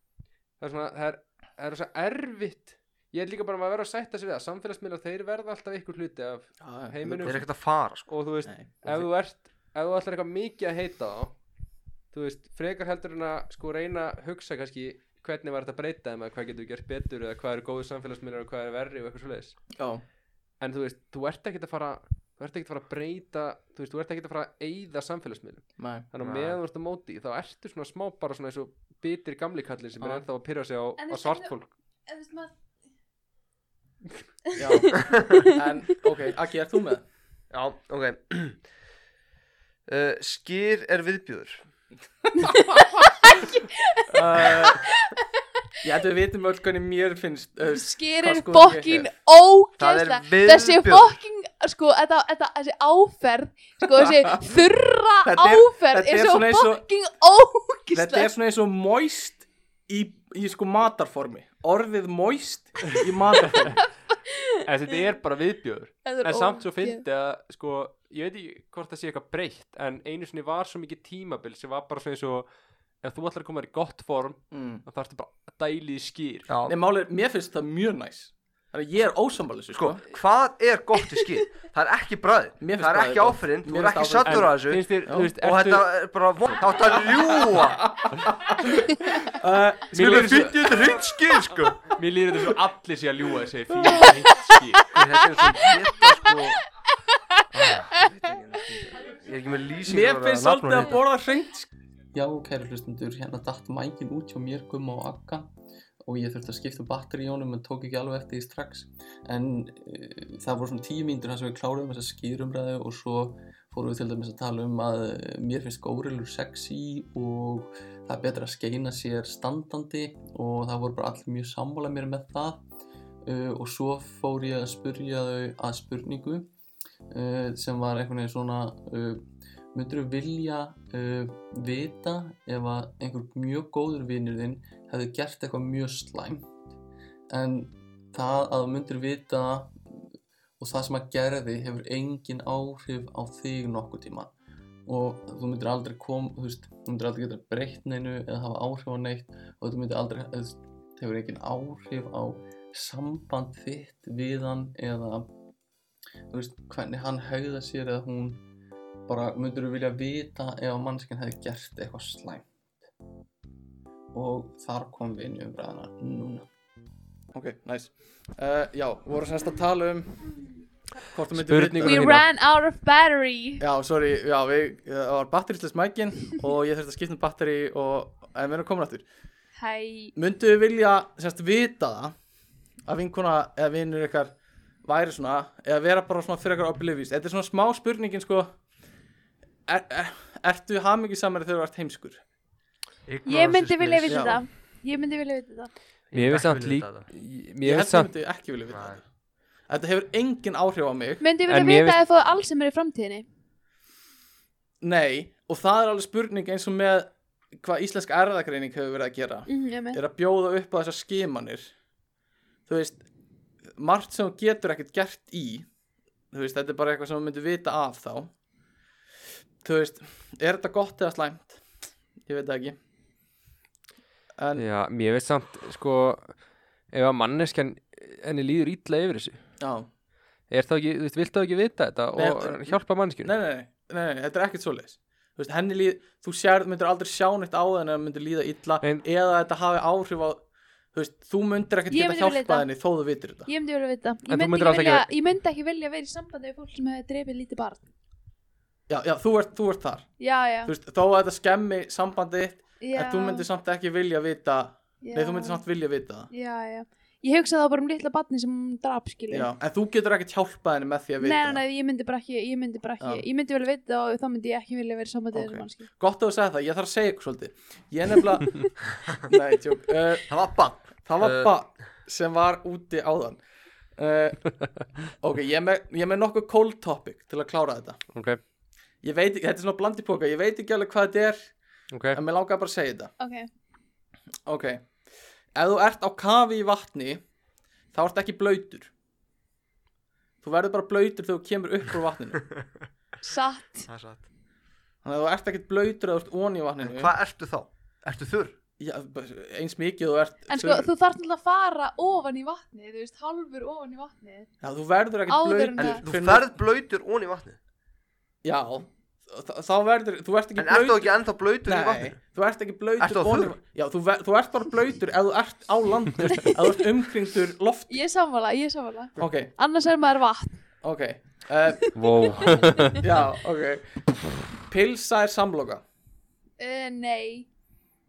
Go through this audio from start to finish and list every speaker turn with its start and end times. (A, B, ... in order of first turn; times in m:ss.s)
0:00.6-0:07.5 A
0:06.6-0:07.4 B
0:07.2-0:08.1 C
0:08.0-0:11.4 A
0:08.4-0:09.1 B
0:12.1-0:19.6 A
0:19.8-0:20.0 B
0:20.6-0:31.7 A
0:25.8-0:26.1 B
0:26.2-0:26.6 C
0:30.0-0:30.2 B
0:31.0-0:31.5 D
0:32.1-0:32.5 D
0:34.5-0:35.6 D
0:34.6-0:37.0 B
0:37.5-0:38.6 C
0:39.9-0:41.6 C
0:42.4-0:45.2 D
0:44.1-0:44.9 B
0:45.8-0:49.1 B
0:47.7-0:58.3 D
0:49.8-0:51.2 C
0:54.0-0:54.4 B
0:55.2-0:56.8 B
0:57.9-1:03.8 B
1:04.3-1:05.0 D
1:04.6-1:12.5 A
1:06.0-1:07.0 D
1:13.0-1:16.5 A
1:14.5-1:14.8 B
1:16.5-1:16.8 C
1:16.7-1:20.0 B
1:19.8-1:24.8 C
1:22.6-1:24.6 B
1:24.2-1:25.9 A
1:25.1-1:25.3 B
1:25.4-1:27.9 C
1:26.9-1:30.7 B
1:29.9-1:31.1 A
1:30.0-1:31.8 C
1:31.9-1:35.0 A
1:34.9-1:36.6 C
1:35.4-1:36.5 D
1:37.5-1:41.0 C
1:37.6-1:38.2 D
1:39.8-1:41.7 B
1:42.1-1:45.5 E
1:46.0-2:02.6 E
2:03.2-2:06.5 E
2:07.1-2:16.6 E
2:17.3-2:20.1 E
2:20.6-2:24.3 E
2:24.9-2:35.3 E
2:36.3-2:38.4 E
2:39.1-2:42.5 E
2:44.1-2:46.5 E
2:47.3-2:50.3 B
2:51.1-2:52.2 B
2:51.3-2:52.3 A
2:51.8-2:53.6 D
2:53.6-2:59.1 B
2:59.6-3:00.1 D
3:00.2-3:02.1 B
3:02.9-3:04.3 B
3:04.8-3:08.5 B
3:09.7-3:12.2 B
3:13.1-3:14.4 C
3:13.3-3:15.7 D
3:14.1-3:14.4 B
3:16.1-3:17.1 C
3:16.1-3:18.1 A
3:17.6-3:19.0 B
3:18.7-3:19.0 C
3:19.7-3:21.2 B
3:21.2-3:23.3 D
3:21.5-3:22.0 A
3:24.8-3:31.7 B
3:29.5-3:30.0 D
3:32.7-3:33.0 B
3:33.8-3:35.7 B
3:36.3-3:38.3 B
3:39.6-3:41.6 B
3:42.2-3:42.8 B
3:44.4-3:44.7 B
3:44.6-3:46.4 A
3:46.9-3:49.4 A
3:49.6-3:49.9 B
3:50.5-3:53.3 A
3:52.2-4:00.4 B
4:00.9-4:03.5 B
4:01.9-4:02.7 D
4:03.5-4:07.9 D
4:04.3-4:05.1 A
4:08.9-4:10.1 B
4:10.2-4:10.7 D
4:10.6-4:16.3 B
4:12.8-4:13.5 D
4:15.0-4:15.6 D
4:16.3-4:19.5 D
4:19.3-4:21.6 B
4:21.2-4:25.9 D
4:23.0-4:23.2 B
4:25.3-4:30.3 B
4:30.3-4:31.5 C
4:31.0-4:33.4 B
4:34.0-4:34.5 B
4:35.2-4:38.0 B
4:38.1-4:38.4 A
4:39.0-4:41.5 B
4:41.9-4:42.2 A
4:42.1-4:43.1 B
4:43.2-4:43.5 D
4:44.5-4:44.9 B
4:45.6-4:47.2 B
4:47.9-4:48.9 B
4:50.4-4:52.5 B
4:53.2-4:53.9 D
4:53.9-4:54.2 C
4:55.0-4:57.2 B
4:56.8-4:58.6 C
4:58.8-5:00.9 B
5:00.5-5:04.5 D
5:04.6-5:06.6 B
5:05.3-5:06.0 D
5:05.8-5:07.6 C
5:08.4-5:18.0 B
5:10.6-5:12.2 C
5:13.0-5:13.6 C
5:17.9-5:20.6 D
5:19.2-5:19.5 B
5:20.8-5:21.9 B
5:22.0-5:23.0 A
5:22.2-5:23.0 D
5:23.0-5:24.0 B
5:24.6-5:25.8 B
5:26.6-5:27.5 D